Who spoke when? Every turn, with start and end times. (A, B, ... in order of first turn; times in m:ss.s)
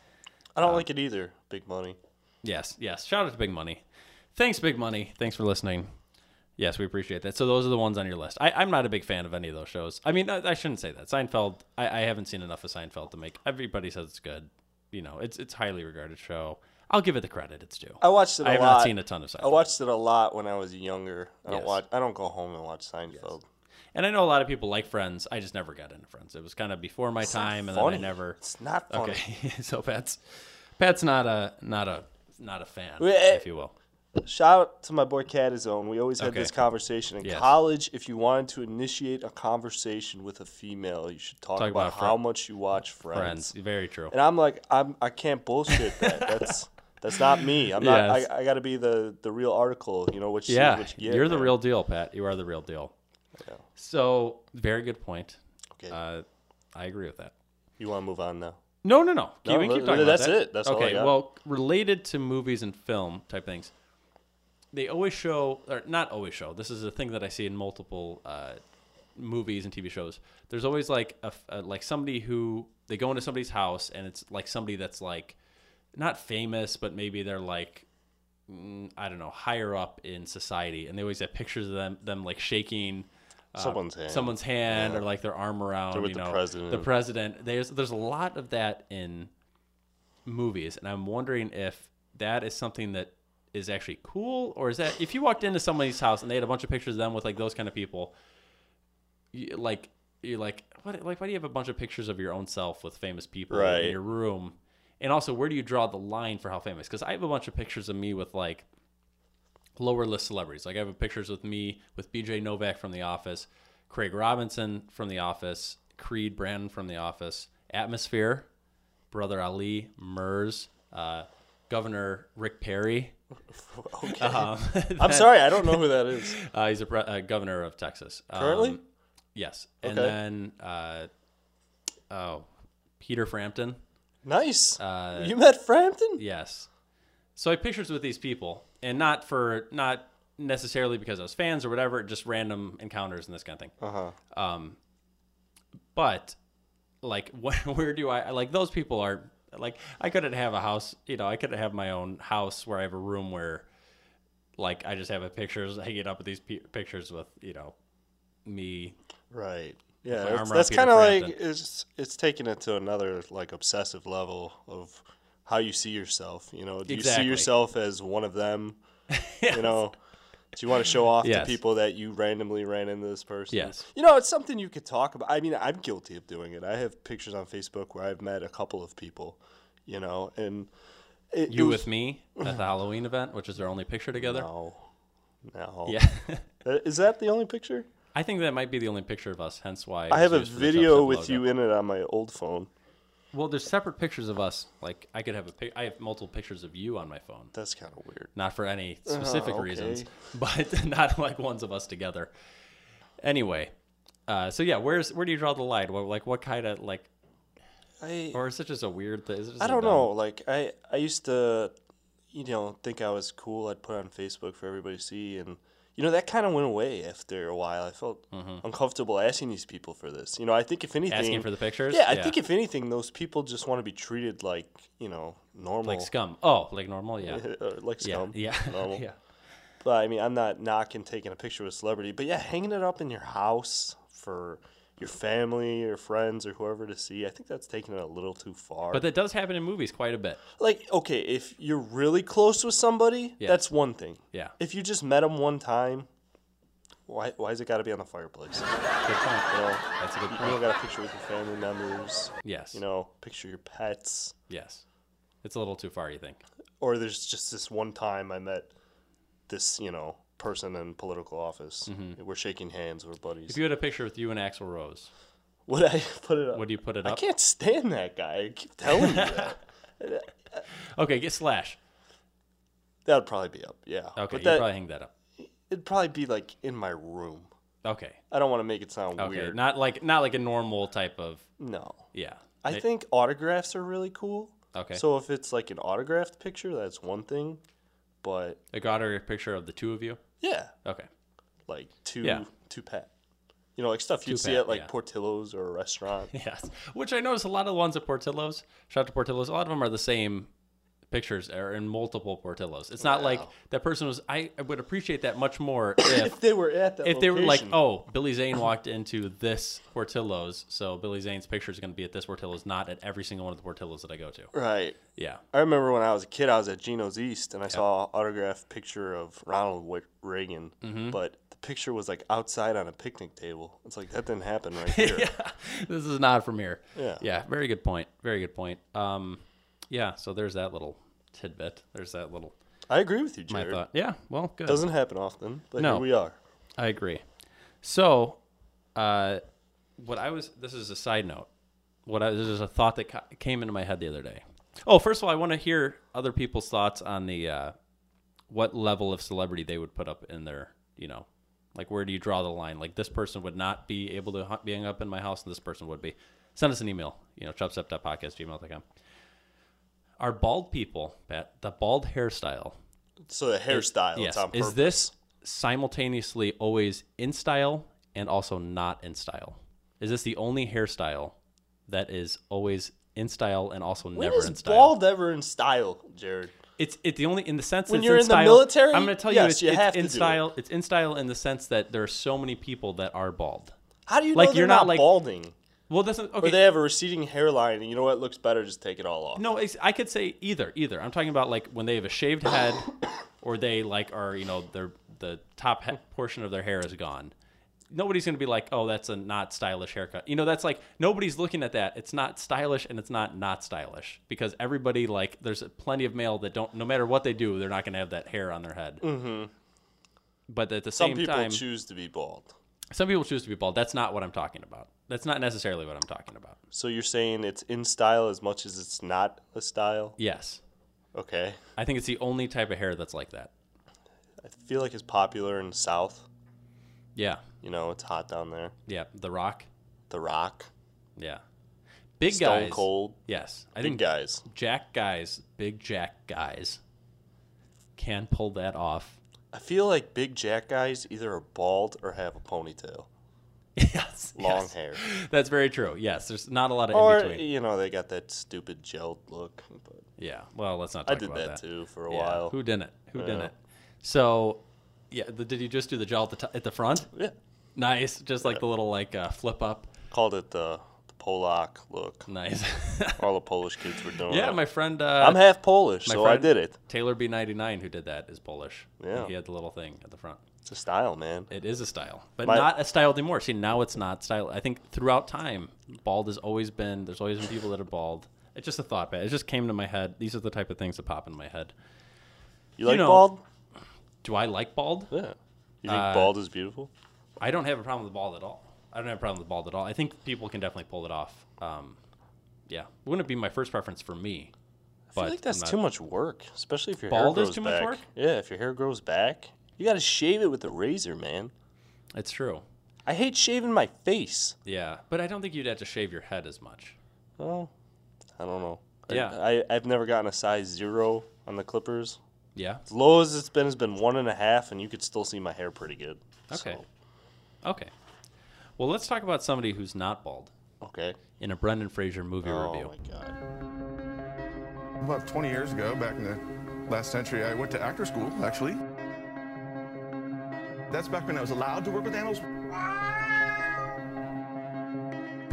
0:00.5-0:02.0 A
0:02.4-0:03.8 B
0:04.3-0:05.9 B
0:06.6-0:19.7 B
0:18.0-0:23.4 A
0:21.5-0:21.8 B
0:23.9-0:28.4 B
0:27.2-0:29.2 A
0:28.9-0:33.7 B
0:33.0-0:33.5 A
0:34.2-0:43.5 A
0:36.2-0:36.5 B
0:37.2-0:37.6 B
0:41.6-0:42.2 B
0:43.1-0:44.2 B
0:44.1-0:51.5 A
0:45.7-0:46.5 B
0:47.8-0:48.3 B
0:50.5-0:52.9 B
0:53.8-0:57.3 B
0:57.8-0:58.6 A
0:58.8-1:03.7 B
0:59.4-1:01.2 A
1:04.7-1:08.6 B
1:09.2-1:15.4 B
1:15.9-1:17.8 B
1:18.5-1:29.3 B
1:23.6-1:25.0 A
1:25.9-1:26.9 A
1:30.2-1:38.1 B
1:39.3-1:48.6 B
1:43.5-1:44.0 A
1:49.8-1:58.5 B
1:59.1-2:03.1 B
2:03.5-2:06.4 A
2:04.2-2:08.8 B
2:08.3-2:08.8 A
2:09.3-2:11.1 B
2:09.8-2:10.1 A
2:12.1-2:12.5 B
2:13.0-2:13.8 B
2:14.2-2:16.2 A
2:14.8-2:15.3 B
2:16.2-2:16.7 B
2:17.4-2:23.7 B
2:23.8-2:24.2 A
2:24.3-2:24.8 B
2:25.9-2:26.4 B
2:27.0-2:33.7 B
2:34.6-2:37.7 B
2:38.4-2:39.0 B
2:39.3-2:48.8 A
2:40.1-2:41.4 B
2:46.9-2:47.5 B
2:49.1-2:49.8 B
2:49.5-2:49.9 A
2:50.5-3:00.7 A
2:51.2-2:51.6 B
2:53.5-2:53.8 B
3:01.3-3:02.6 A
3:01.5-3:04.5 B
3:04.2-3:04.8 A
3:05.4-3:06.0 A
3:05.8-3:06.5 B
3:06.6-3:07.9 A
3:08.1-3:11.4 B
3:10.1-3:12.7 A
3:13.3-3:17.5 B
3:17.5-3:18.3 A
3:18.3-3:22.3 B
3:19.1-3:20.2 A
3:23.2-3:23.7 B
3:24.3-3:27.1 B
3:28.0-3:28.4 A
3:28.3-3:30.1 B
3:29.6-3:31.7 A
3:32.3-3:46.1 A
3:38.3-3:38.6 B
3:41.1-3:42.4 B
3:45.8-3:47.5 B
3:47.2-3:49.0 A
3:48.0-3:49.2 B
3:49.8-3:59.0 A
3:58.9-4:00.4 B
4:00.6-4:06.1 A
4:03.4-4:03.7 B
4:07.1-4:08.7 A
4:09.0-4:10.6 B
4:09.5-4:14.3 A
4:12.4-4:12.8 B
4:14.5-4:14.8 B
4:15.4-4:16.4 B
4:16.8-4:18.7 A
4:19.5-4:23.6 A
4:21.9-4:22.2 B
4:23.5-4:25.1 B
4:25.7-4:30.6 A
4:26.5-4:27.2 B
4:28.9-4:29.5 B
4:30.9-4:31.8 B
4:33.0-4:34.7 A
4:34.2-4:35.1 B
4:35.4-4:37.5 A
4:37.8-4:38.2 B
4:38.3-4:39.6 A
4:39.2-4:41.5 B
4:41.6-4:42.1 A
4:42.1-4:42.8 B
4:42.6-4:47.6 A
4:44.7-4:45.0 B
4:48.2-4:48.6 A
4:48.7-4:50.2 B
4:50.4-4:50.7 A
4:51.7-4:53.1 A
4:53.8-4:56.3 A
4:54.2-4:54.9 B
4:56.3-5:00.5 B
5:01.1-5:06.4 B
5:03.0-5:03.5 A
5:06.0-5:07.8 A
5:07.0-5:14.5 B
5:14.5-5:25.3 A
5:15.1-5:15.4 B
5:20.8-5:21.2 B
5:24.9-5:32.5 B
5:27.0-5:27.2 A
5:32.9-5:33.8 A
5:33.5-5:34.8 B
5:34.6-5:36.4 A
5:35.8-5:36.1 B
5:36.8-5:37.2 B
5:37.8-5:38.4 B
5:39.0-5:39.4 B
5:40.0-5:41.5 B
5:42.0-5:47.7 B
5:48.5-5:58.8 B
6:00.2-6:02.8 B
6:03.3-6:05.1 A
6:03.7-6:11.4 B
6:11.9-6:14.9 B
6:14.1-6:16.5 A
6:16.8-6:23.7 B
6:17.9-6:20.4 A
6:24.1-6:25.5 A
6:24.3-6:25.1 B
6:25.9-6:26.6 B
6:26.4-6:29.4 A
6:29.4-6:32.9 B
6:33.4-6:37.3 B
6:37.9-6:49.0 B
6:49.0-6:49.5 A
6:50.5-6:51.6 B
6:50.9-6:52.5 A
6:52.9-6:56.6 B
6:56.7-7:00.2 A
7:00.2-7:00.6 B
7:01.1-7:01.6 A
7:01.8-7:03.5 B
7:04.4-7:06.2 A
7:07.2-7:07.4 B
7:07.6-7:08.7 A
7:08.9-7:09.7 B
7:10.1-7:10.7 A
7:11.2-7:11.4 B
7:12.2-7:16.8 B
7:12.3-7:13.2 A
7:13.8-7:14.4 A
7:18.0-7:19.2 B
7:19.5-7:23.1 A
7:23.8-7:27.4 B
7:24.4-7:25.0 A
7:26.9-7:30.0 A
7:30.2-7:37.1 B
7:31.1-7:32.6 A
7:33.1-7:33.5 A
7:37.8-7:39.9 B
7:40.1-7:42.3 A
7:42.3-7:43.2 B
7:43.2-7:44.6 A
7:44.3-7:45.4 B
7:45.2-7:46.7 A
7:46.0-7:50.4 B
7:49.0-7:49.3 A
7:50.6-7:51.5 A
7:51.5-8:01.7 B
7:52.4-7:52.7 A
8:02.8-8:03.4 A
8:02.8-8:03.3 B
8:04.2-8:05.1 B
8:05.1-8:06.9 A
8:05.9-8:06.3 B
8:07.4-8:12.0 B
8:12.7-8:14.5 B
8:15.1-8:21.5 A
8:15.2-8:15.8 B
8:17.1-8:18.0 B
8:22.1-8:22.6 B
8:23.0-8:24.6 A
8:24.6-8:27.0 B
8:27.4-8:27.7 A
8:28.4-8:32.2 A
8:29.1-8:29.4 B
8:32.6-8:32.8 B
8:32.9-8:36.9 A
8:36.5-8:36.8 B
8:37.6-8:37.9 B
8:38.8-8:40.5 B
8:40.8-8:41.2 A
8:41.4-8:42.9 B
8:42.4-8:43.4 A
8:45.0-8:48.8 C
8:50.9-8:53.5 C